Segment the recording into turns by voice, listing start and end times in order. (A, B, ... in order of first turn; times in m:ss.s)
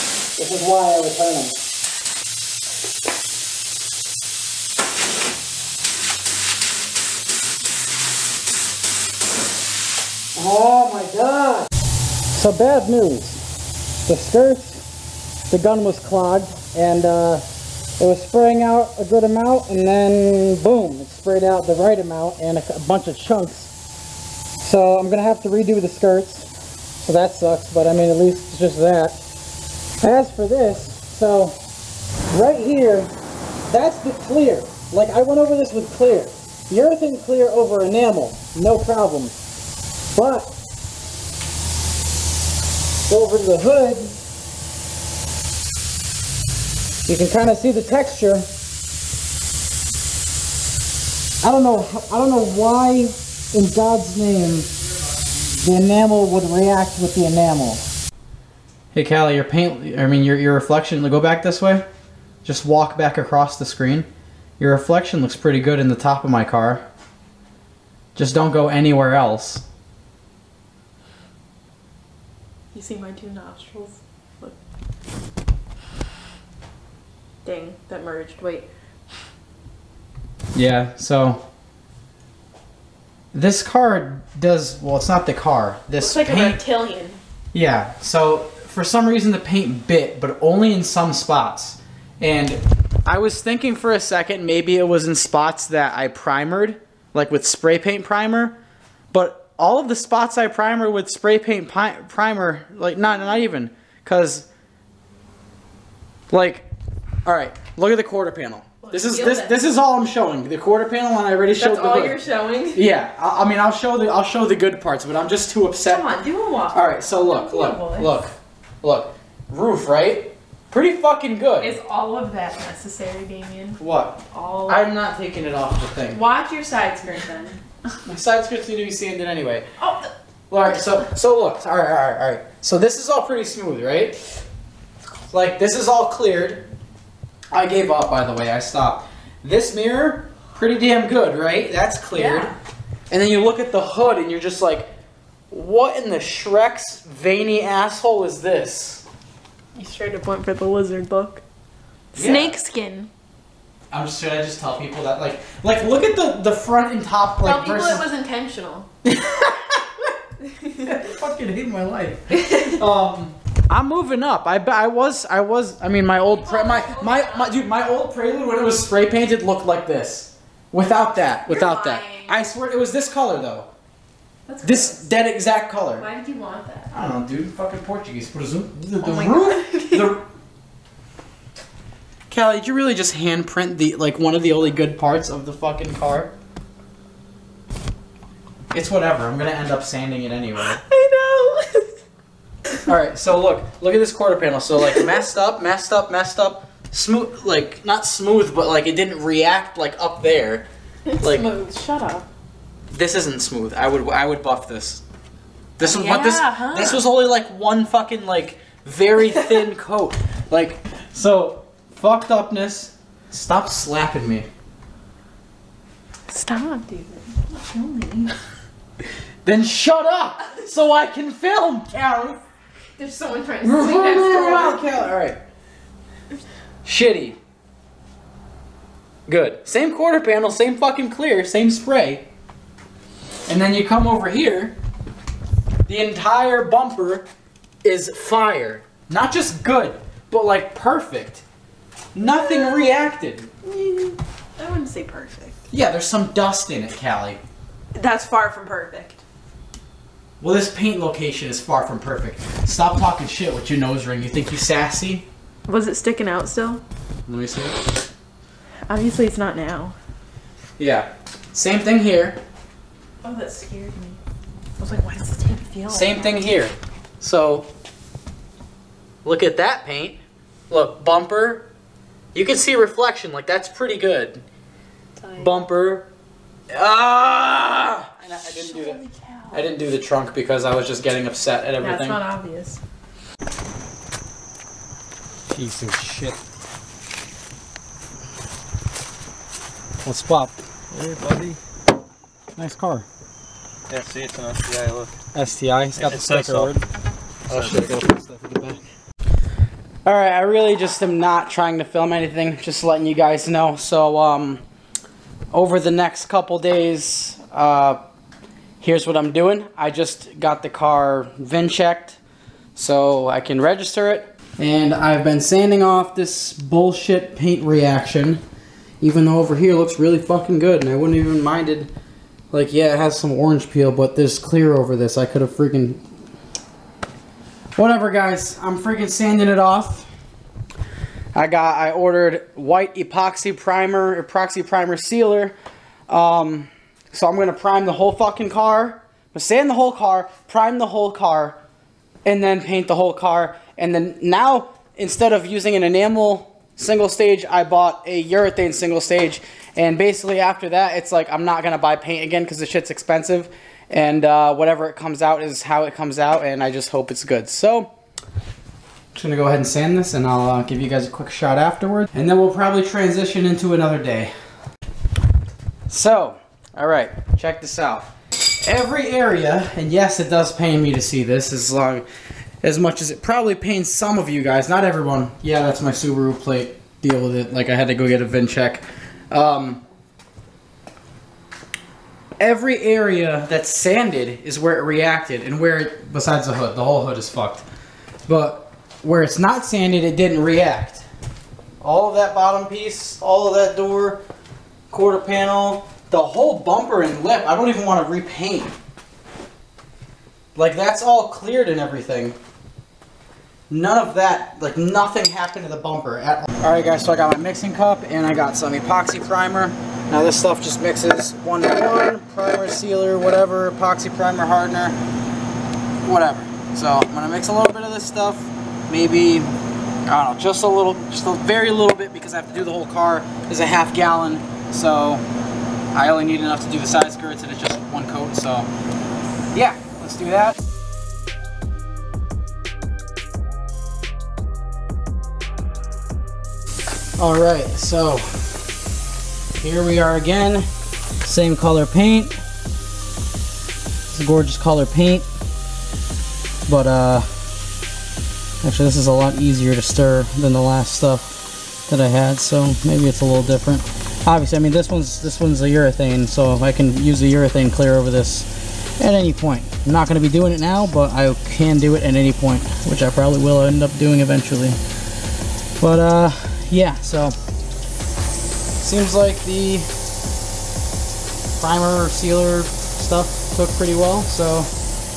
0:00.3-0:01.6 A
0:10.3-0:11.7 A
0:12.3-0:13.4 A
0:14.0-0:14.8 A
0:15.5-0:17.4 A
0:18.0-0:23.7 A
0:24.6-0:26.5 A
0:27.0-0:29.2 A
0:30.0-0:31.6 A
0:32.3-0:33.1 A
0:33.7-0:39.3 A
0:40.1-0:40.5 A
0:43.1-0:44.2 A
0:47.0-0:48.5 A
0:51.4-0:54.7 A
0:55.5-0:57.8 A
0:58.9-1:01.8 A
1:02.4-1:04.1 A
1:04.6-1:06.8 A
1:08.1-1:09.6 A
1:12.7-1:14.6 B
1:17.4-1:18.7 B
1:20.5-1:21.4 A
1:23.3-1:26.6 A
1:26.0-1:27.2 B
1:27.5-1:38.6 A
1:39.1-1:44.5 A
1:46.3-1:46.7 A
1:47.2-1:52.2 A
1:48.9-1:49.6 B
1:51.6-1:52.8 B
1:52.7-1:56.1 A
1:55.8-1:58.2 B
1:56.7-2:01.7 A
2:01.6-2:04.8 B
2:03.8-2:06.2 A
2:06.1-2:07.6 B
2:08.0-2:09.6 A
2:09.8-2:10.1 B
2:10.5-2:14.2 A
2:15.3-2:16.6 A
2:17.5-2:22.6 A
2:22.1-2:22.5 B
2:23.1-2:24.9 A
2:25.5-2:29.0 A
2:29.7-2:31.4 B
2:32.1-2:33.1 B
2:32.1-2:32.6 A
2:33.9-2:38.0 A
2:37.4-2:38.9 B
2:39.0-2:40.1 A
2:40.7-2:53.7 A
2:46.3-2:47.5 B
2:51.5-2:52.4 B
2:54.5-2:55.1 B
2:54.6-2:56.1 A
2:56.0-2:56.9 B
2:56.9-3:00.2 A
2:59.0-3:00.1 B
3:02.3-3:06.3 A
3:08.7-3:10.8 A
3:10.7-3:12.0 B
3:12.8-3:20.6 A
3:21.1-3:22.3 B
3:21.2-3:21.5 A
3:22.9-3:25.0 A
3:25.8-3:34.5 A
3:25.8-3:27.0 B
3:36.3-3:38.4 B
3:39.4-3:42.4 A
3:43.0-3:44.9 B
3:43.6-3:45.4 A
3:46.8-3:47.4 A
3:49.3-3:52.2 A
3:53.5-3:54.7 A
3:55.8-3:57.2 A
3:57.8-4:01.4 A
4:02.1-4:03.5 A
4:02.2-4:02.9 B
4:03.6-4:05.6 B
4:05.7-4:07.4 A
4:07.9-4:09.2 B
4:10.4-4:15.2 A
4:15.7-4:16.8 B
4:17.3-4:17.8 A
4:18.8-4:19.9 B
4:20.8-4:22.4 A
4:23.2-4:24.2 B
4:24.8-4:26.4 B
4:25.9-4:27.7 A
4:29.2-4:31.7 A
4:32.3-4:34.4 A
4:35.2-4:35.5 B
4:35.3-4:36.1 A
4:36.7-4:39.0 A
4:38.5-4:39.6 B
4:39.5-4:42.2 A
4:41.8-4:42.8 B
4:45.5-4:46.4 A
4:50.0-4:50.5 A
4:50.9-4:51.6 C
4:52.6-4:53.0 A
4:53.9-4:55.1 C
4:55.3-4:56.8 A
4:56.0-4:56.7 C
4:57.5-4:58.0 C
4:57.5-4:58.8 A
5:00.0-5:04.6 A
5:05.5-5:08.0 A
5:08.8-5:12.2 A
5:12.7-5:18.4 A
5:19.0-5:21.9 A
5:22.5-5:26.0 A
5:27.7-5:30.1 A
5:31.3-5:35.5 A
5:36.1-5:41.6 A
5:42.2-5:57.9 A
5:59.1-6:04.3 A
6:05.9-6:12.0 A
6:12.6-6:19.8 A
6:22.4-6:27.6 A
6:28.3-6:31.0 A
6:31.8-6:34.2 A
6:34.9-6:38.7 A
6:40.5-6:42.4 A
6:43.7-6:55.0 A
6:56.0-6:59.5 A
7:00.0-7:05.2 A
7:05.9-7:08.7 A
7:09.5-7:10.6 A
7:17.2-7:18.4 A
7:19.5-7:20.7 A
7:21.2-7:22.4 A
7:24.1-7:25.2 A
7:26.7-7:27.3 A
7:28.6-7:44.8 A
7:45.8-7:47.4 A
7:48.8-7:49.9 A
7:51.6-7:54.7 A